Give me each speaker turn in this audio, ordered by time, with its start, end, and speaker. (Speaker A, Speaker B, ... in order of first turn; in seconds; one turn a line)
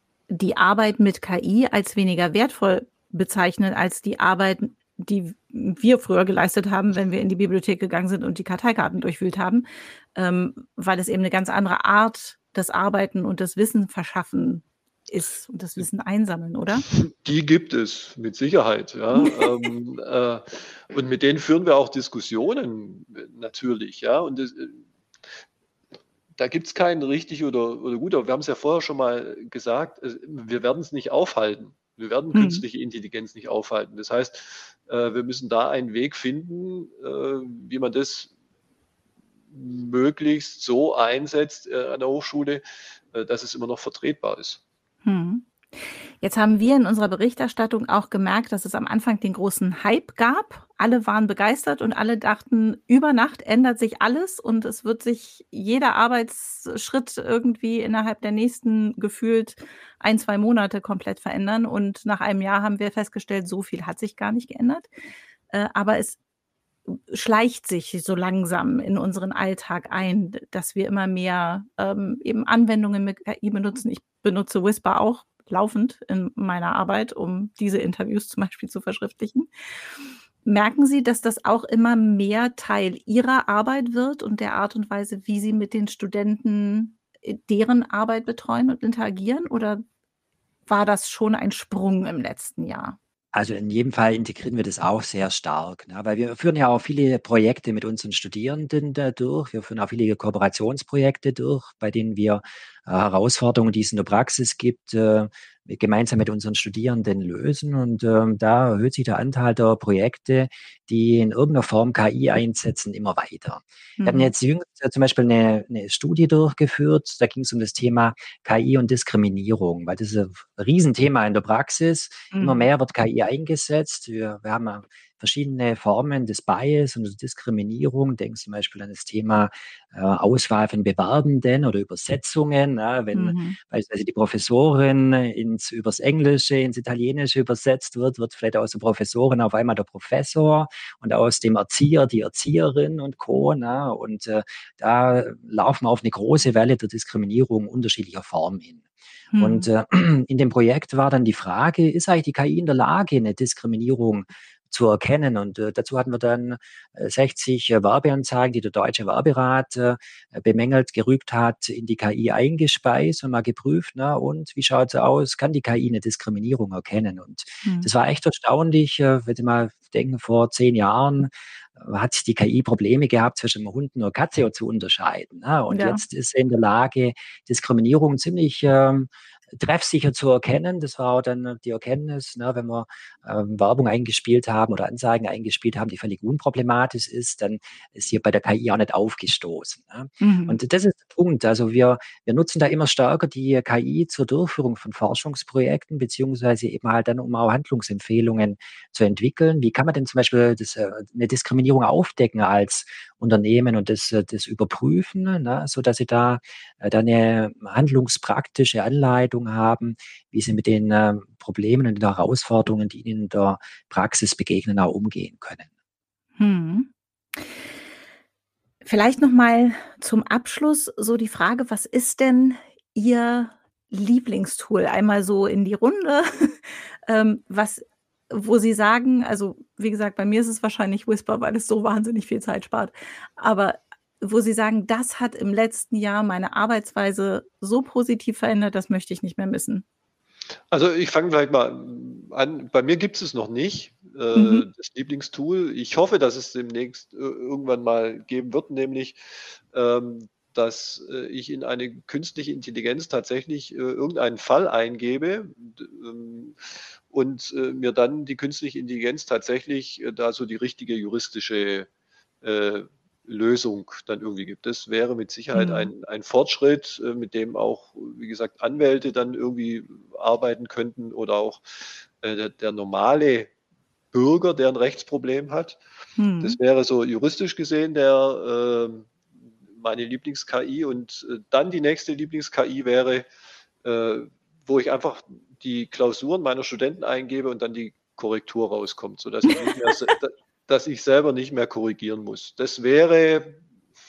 Speaker A: 0.3-16.9
Speaker B: 16.9-24.8
Speaker A: 19.1-19.5
Speaker B: 26.4-38.3
Speaker A: 32.3-32.6
Speaker B: 39.5-44.6
Speaker A: 45.0-45.5
Speaker A: 46.2-64.9
Speaker A: 65.5-66.2
Speaker A: 66.9-79.5
Speaker A: 80.4-89.8
Speaker A: 90.7-93.0
Speaker C: 93.3-148.8
Speaker A: 114.0-114.3
Speaker A: 122.3-122.7
Speaker A: 133.1-133.6
Speaker A: 149.3-149.7
Speaker C: 149.4-215.7
Speaker A: 167.6-167.9
Speaker A: 175.7-176.0
Speaker A: 190.2-190.6
Speaker A: 216.4-217.5
Speaker A: 218.8-239.8
Speaker B: 240.7-249.2
Speaker A: 244.3-244.7
Speaker B: 249.7-261.9
Speaker B: 262.4-271.6
Speaker A: 265.5-265.9
Speaker B: 272.2-273.5
Speaker B: 274.1-275.8
Speaker A: 276.2-276.6
Speaker B: 276.4-279.1
Speaker B: 279.7-283.3
Speaker B: 283.8-293.6